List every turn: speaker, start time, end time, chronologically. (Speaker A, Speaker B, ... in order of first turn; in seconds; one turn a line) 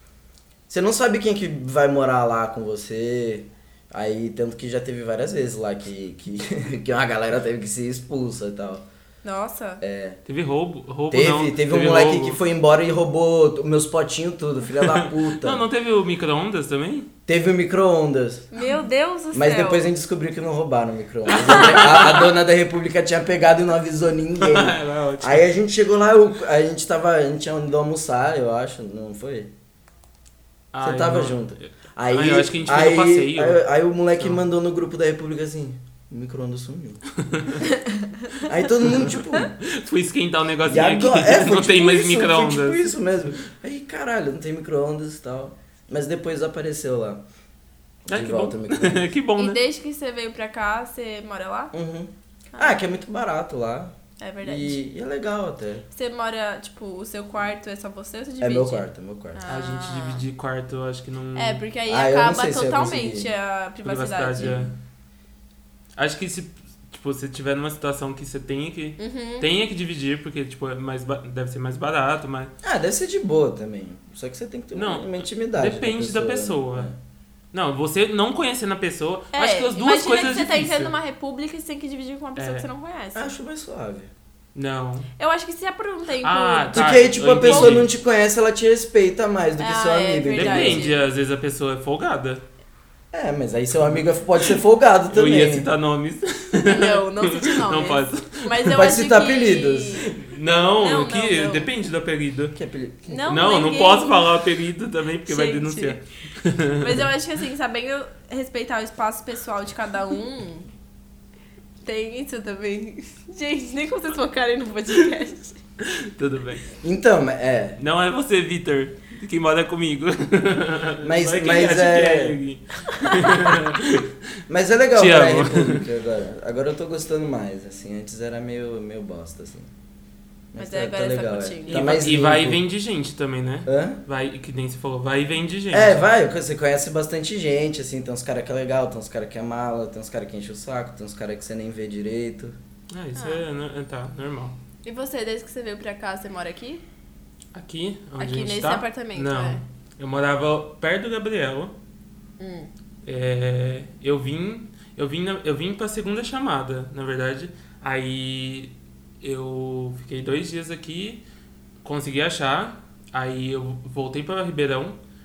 Speaker A: 0.7-8.8
Speaker B: 9.2-9.8
Speaker A: 9.8-10.2
Speaker C: 10.2-12.4
Speaker A: 11.1-15.6
Speaker C: 14.8-17.1
Speaker A: 17.3-18.5
Speaker B: 18.5-19.9
Speaker A: 19.3-29.5
Speaker C: 21.3-22.4
Speaker C: 24.4-25.5
Speaker C: 30.7-33.6
Speaker A: 30.8-37.0
Speaker C: 37.2-37.6
Speaker B: 37.8-38.5
Speaker A: 38.4-39.6
Speaker C: 39.6-42.9
Speaker A: 40.6-47.2
Speaker A: 48.0-49.0
Speaker C: 48.1-49.6
Speaker B: 49.4-51.7
Speaker A: 51.7-55.9
Speaker B: 52.5-52.8
Speaker B: 54.2-54.8
Speaker B: 55.9-60.2
Speaker A: 58.4-59.4
Speaker C: 59.5-61.6
Speaker B: 61.4-64.6
Speaker A: 61.9-63.3
Speaker C: 63.8-64.7
Speaker A: 64.4-64.7
Speaker C: 66.0-72.5
Speaker B: 69.0-69.5
Speaker A: 72.6-76.9
Speaker C: 74.7-76.9
Speaker C: 77.5-80.9
Speaker B: 79.3-83.3
Speaker C: 82.4-82.7
Speaker A: 83.2-84.1
Speaker C: 84.5-85.1
Speaker B: 85.2-87.8
Speaker C: 86.2-87.9
Speaker A: 86.7-90.8
Speaker B: 89.6-91.0
Speaker C: 90.4-92.4
Speaker A: 93.1-95.7
Speaker C: 93.8-94.5
Speaker C: 95.1-98.8
Speaker B: 96.7-100.2
Speaker A: 98.7-100.1
Speaker C: 100.1-102.6
Speaker B: 100.8-101.7
Speaker A: 102.5-103.2
Speaker B: 103.1-104.3
Speaker C: 103.3-107.1
Speaker B: 105.2-106.0
Speaker B: 106.8-110.7
Speaker B: 111.8-115.6
Speaker C: 115.8-116.7
Speaker A: 116.8-117.8
Speaker C: 117.8-124.1
Speaker A: 121.0-122.4
Speaker B: 122.9-123.4
Speaker A: 124.5-129.7
Speaker C: 124.9-125.8
Speaker A: 130.5-132.6
Speaker B: 130.6-132.0
Speaker C: 131.7-136.1
Speaker A: 133.7-134.0
Speaker A: 135.7-142.6
Speaker C: 142.9-144.6
Speaker B: 143.2-143.4
Speaker B: 144.8-146.8
Speaker C: 147.5-151.8
Speaker B: 148.2-149.6
Speaker B: 152.4-152.7
Speaker C: 153.0-161.2
Speaker C: 161.8-165.0